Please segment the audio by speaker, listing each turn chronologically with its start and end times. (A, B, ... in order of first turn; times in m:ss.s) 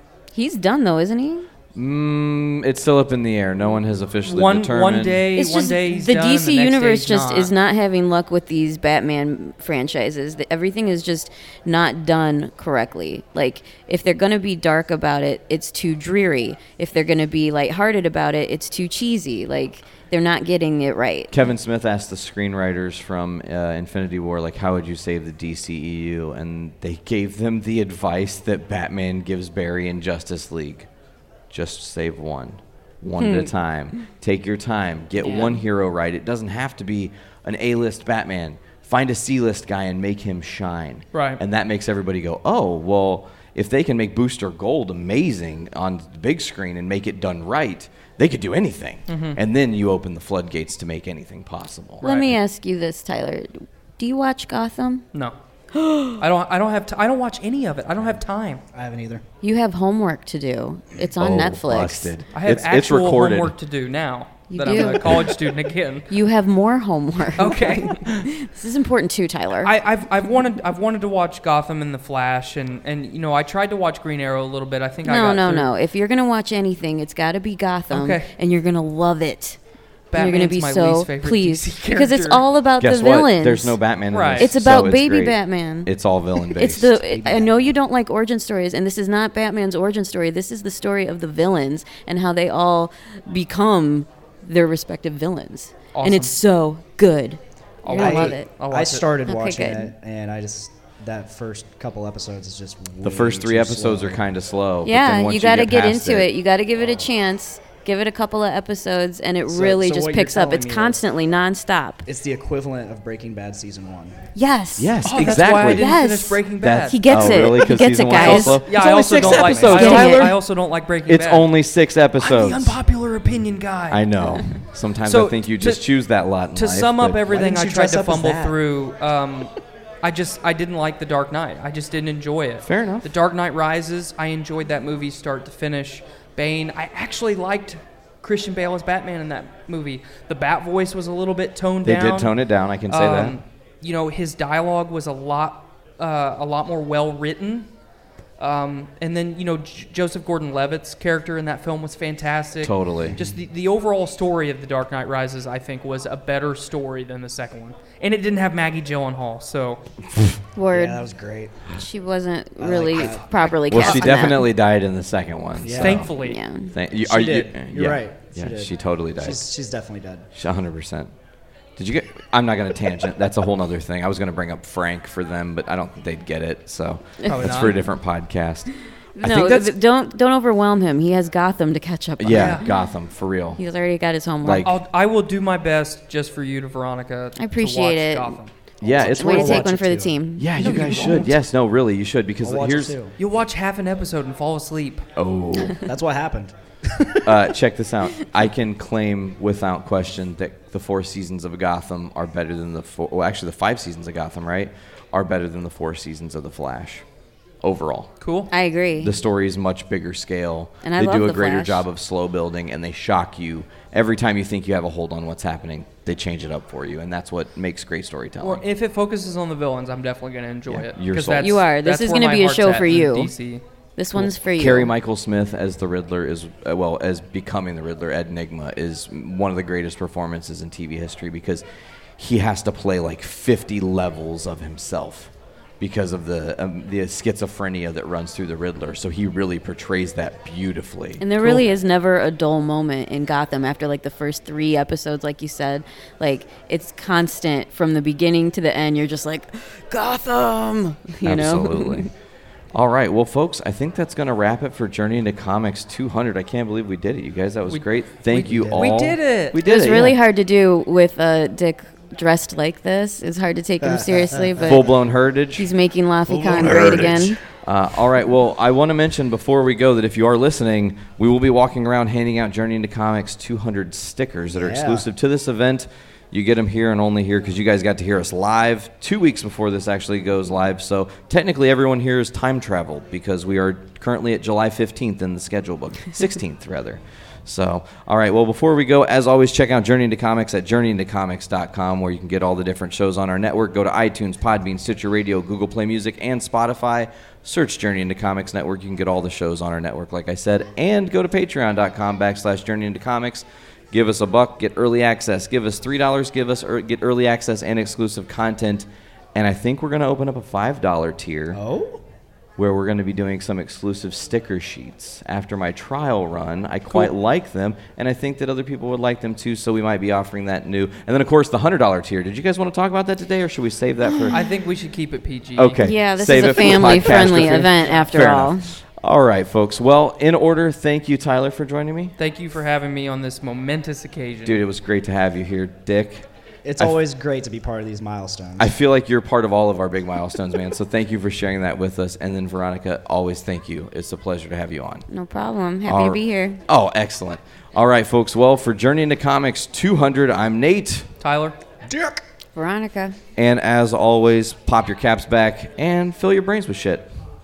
0:00.3-0:01.5 A
0:01.7-0:05.2 B
0:04.3-0:07.5 C
0:05.3-0:21.3 A
0:21.3-0:30.9 B
0:31.5-0:52.1 B
0:33.2-0:33.5 A
0:35.2-0:35.5 A
0:41.1-0:41.4 C
0:49.1-0:49.4 C
0:52.0-0:52.3 C
0:52.0-0:55.0 A
0:55.7-0:56.2 A
0:56.2-0:58.6 C
0:58.7-0:59.2 D
0:59.4-1:02.1 A
1:01.1-1:03.5 B
1:02.3-1:06.1 C
1:04.5-1:05.3 A
1:05.0-1:05.4 B
1:06.1-1:09.7 A
1:07.4-1:08.3 C
1:09.6-1:15.7 C
1:15.0-1:19.6 A
1:17.9-1:18.3 C
1:20.1-1:22.5 C
1:20.1-1:23.8 A
1:22.8-1:27.0 B
1:24.1-1:24.6 C
1:24.4-1:25.9 A
1:26.4-1:38.5 A
1:27.1-1:27.6 D
1:35.9-1:36.3 C
1:37.8-1:39.2 C
1:37.9-1:44.2 D
1:39.2-1:39.9 A
1:43.0-1:46.3 B
1:44.8-1:52.0 A
1:46.8-1:47.1 D
1:49.5-1:51.0 D
1:52.0-1:54.3 D
1:54.4-2:00.3 A
1:54.8-1:55.9 B
1:55.0-2:01.6 C
1:56.6-2:02.8 B
1:58.7-2:00.0 D
2:02.2-2:05.8 C
2:03.9-2:07.2 B
2:06.5-2:22.3 C
2:07.3-2:08.6 D
2:12.6-2:13.1 B
2:21.8-2:23.4 B
2:22.9-2:27.7 C
2:28.4-2:39.8 C
2:32.6-2:33.2 B
2:33.0-2:33.4 D
2:40.5-2:41.1 A
2:40.7-2:41.7 D
2:41.6-2:44.4 A
2:42.6-2:43.3 D
2:43.4-2:44.0 C
2:43.7-2:46.1 B
2:45.6-2:46.1 D
2:45.8-2:46.4 C
2:46.1-2:46.7 A
2:46.7-2:49.5 B
2:46.9-2:50.3 D
2:50.3-2:51.1 B
2:51.8-2:59.7 B
2:57.2-2:57.8 C
2:59.2-3:02.6 A
3:02.2-3:03.6 B
3:02.3-3:02.6 C
3:03.6-3:04.7 A
3:04.4-3:04.8 B
3:04.6-3:08.5 C
3:07.4-3:08.4 A
3:08.8-3:09.7 B
3:08.8-3:11.2 D
3:09.0-3:10.7 A
3:10.4-3:13.0 B
3:10.6-3:11.3 C
3:12.4-3:13.1 D
3:13.2-3:15.1 C
3:15.2-3:15.8 B
3:15.8-3:17.3 D
3:17.2-3:27.0 B
3:27.6-3:28.1 B
3:28.2-3:28.5 C
3:28.5-3:29.1 A
3:29.0-3:38.6 B
3:30.8-3:31.8 A
3:38.4-3:43.6 C
3:40.7-3:41.5 B
3:41.4-3:43.3 A
3:44.0-3:44.9 A
3:44.1-3:51.6 B
3:52.2-4:01.6 B
4:01.2-4:12.1 A
4:11.2-4:12.1 B
4:12.7-4:20.2 B
4:17.7-4:19.6 C
4:18.3-4:19.0 D
4:19.6-4:24.9 A
4:24.6-4:25.7 B
4:25.5-4:27.4 A
4:26.3-4:27.3 D
4:27.6-5:11.6 B
4:34.5-4:35.0 D
5:11.5-5:12.0 D
5:12.6-5:24.4 B
5:24.3-5:25.8 C
5:25.6-5:32.1 B
5:25.8-5:28.7 A
5:32.2-5:34.6 C
5:34.4-5:36.2 B
5:36.6-5:38.7 D
5:38.6-5:45.0 B
5:45.1-5:46.6 A
5:45.8-5:51.1 B
5:51.2-5:51.6 C
5:51.8-5:52.2 D
5:52.5-5:53.2 A
5:53.4-5:57.1 B